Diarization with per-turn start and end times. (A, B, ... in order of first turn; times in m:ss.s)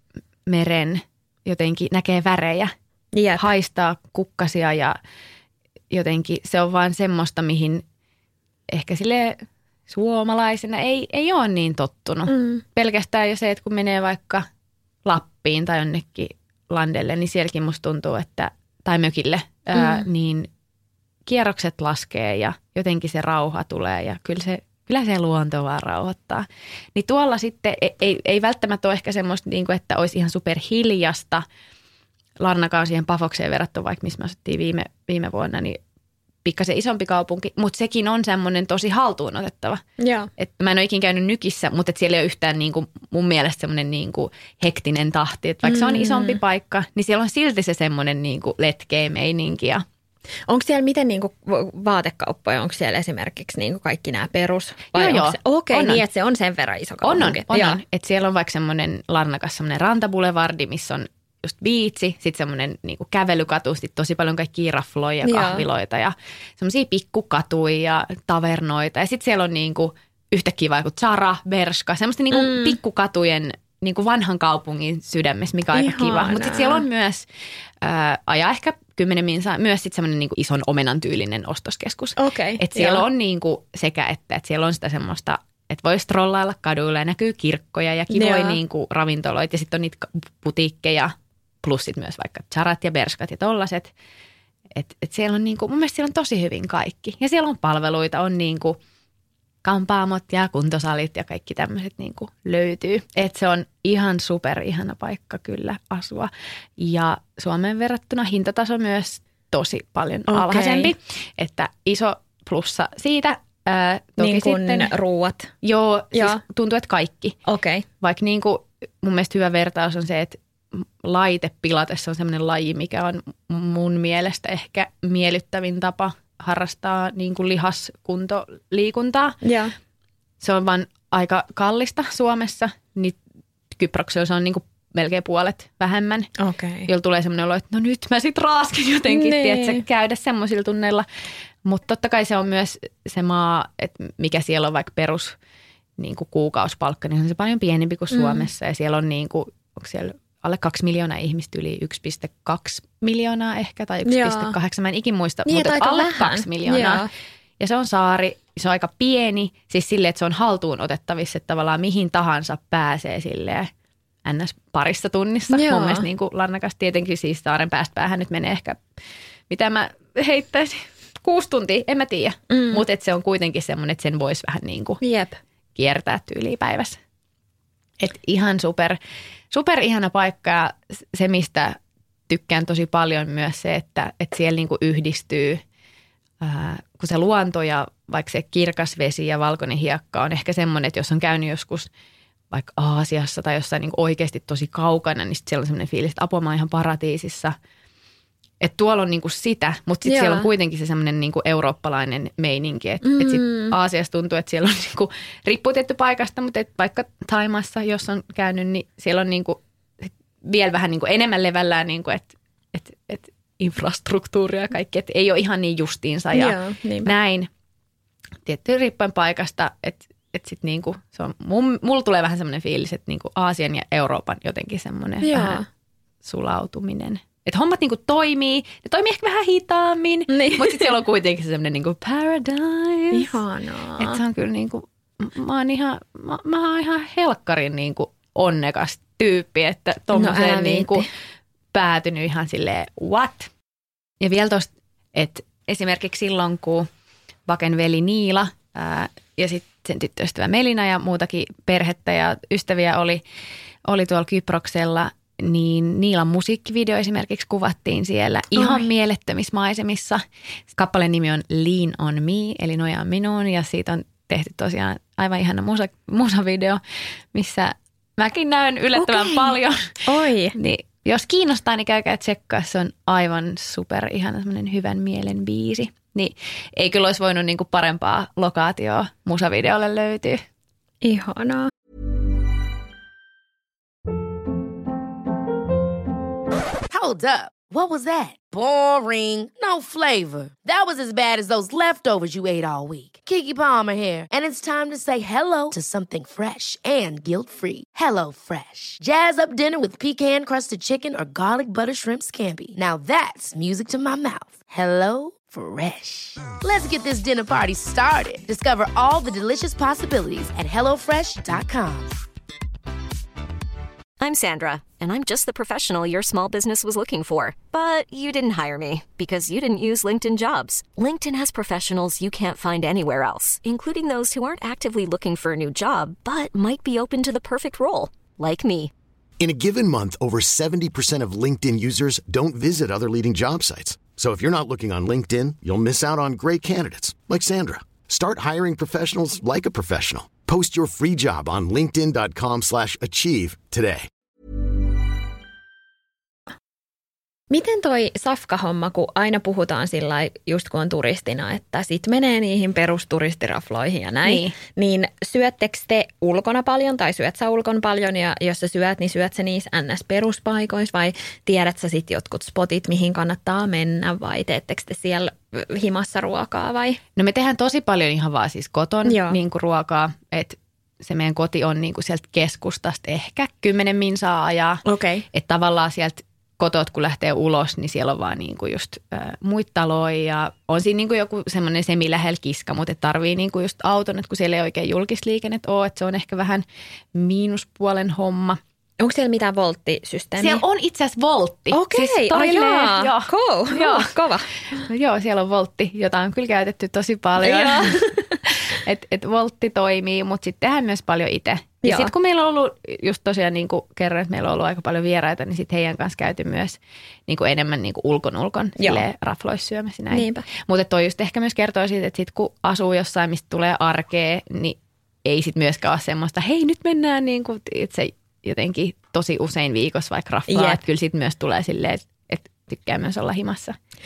0:00.5-0:02.7 A
0:03.1-0:03.4 B
0:03.4-0:05.0 A
0:05.9-0:07.8 A
0:08.7-0:14.4 A
0:12.3-0:12.6 B
0:15.0-0:20.5 A
0:19.7-0:20.0 B
0:21.3-0:31.4 A
0:32.4-0:35.8 A
0:36.4-0:39.8 A
0:40.0-0:40.3 B
0:40.4-0:49.8 A
0:45.6-0:46.4 B
0:50.5-0:57.8 B
0:54.9-0:56.0 A
0:57.0-1:17.2 A
1:05.2-1:05.6 B
1:12.3-1:12.8 B
1:15.7-1:16.8 B
1:17.8-1:33.9 A
1:22.2-1:23.0 B
1:28.1-1:28.6 B
1:34.7-1:38.8 A
1:39.6-1:54.9 A
1:50.3-1:50.9 B
1:54.2-1:55.5 B
1:55.6-1:57.4 A
1:56.1-1:56.4 B
1:57.5-1:57.8 B
1:58.0-2:09.4 A
2:09.4-2:09.7 B
2:10.4-2:13.2 A
2:13.7-2:16.3 A
2:16.4-2:16.9 B
2:16.9-2:21.0 A
2:19.1-2:19.8 B
2:21.6-2:25.4 A
2:26.0-2:37.0 A
2:28.1-2:28.5 B
2:34.0-2:34.5 B
2:35.4-2:37.1 B
2:37.6-2:43.7 A
2:44.2-2:48.8 A
2:45.5-2:46.0 B
2:49.5-2:55.0 A
2:52.5-2:52.8 B
2:55.0-2:55.4 B
2:55.8-2:57.0 A
2:58.0-2:59.0 A
2:59.5-3:01.8 A
3:02.3-3:05.6 A
3:06.4-3:11.9 A
3:12.5-3:17.5 A
3:18.6-3:37.5 A
3:20.0-3:20.5 B
3:23.0-3:23.7 B
3:36.3-3:37.1 B
3:38.4-3:45.6 A
3:45.2-3:45.6 B
3:46.2-3:53.4 A
3:50.3-3:50.9 B
3:53.1-3:54.2 B
3:54.0-4:01.0 A
4:00.1-4:01.1 B
4:01.7-4:03.5 A
4:04.2-4:06.9 A
4:07.4-4:13.2 A
4:13.8-4:20.2 A
4:18.6-4:18.8 B
4:20.7-4:26.8 A
4:27.3-4:30.0 A
4:29.0-4:29.5 B
4:30.0-4:30.5 B
4:30.6-4:40.4 A
4:41.0-4:41.7 B
4:46.9-5:12.2 C
5:14.2-5:28.9 D
5:29.4-5:44.1 E
5:47.5-6:07.0 B
5:54.2-5:54.5 A
6:07.2-6:28.6 A
6:09.0-6:09.4 B
6:14.8-6:15.2 B
6:29.0-6:30.6 B
6:30.4-6:34.1 A
6:31.7-6:34.5 B
6:34.7-7:03.8 A
6:37.4-6:38.4 B
6:41.8-6:42.1 B
6:48.8-6:49.0 B
6:50.1-6:50.4 B
7:00.5-7:00.8 B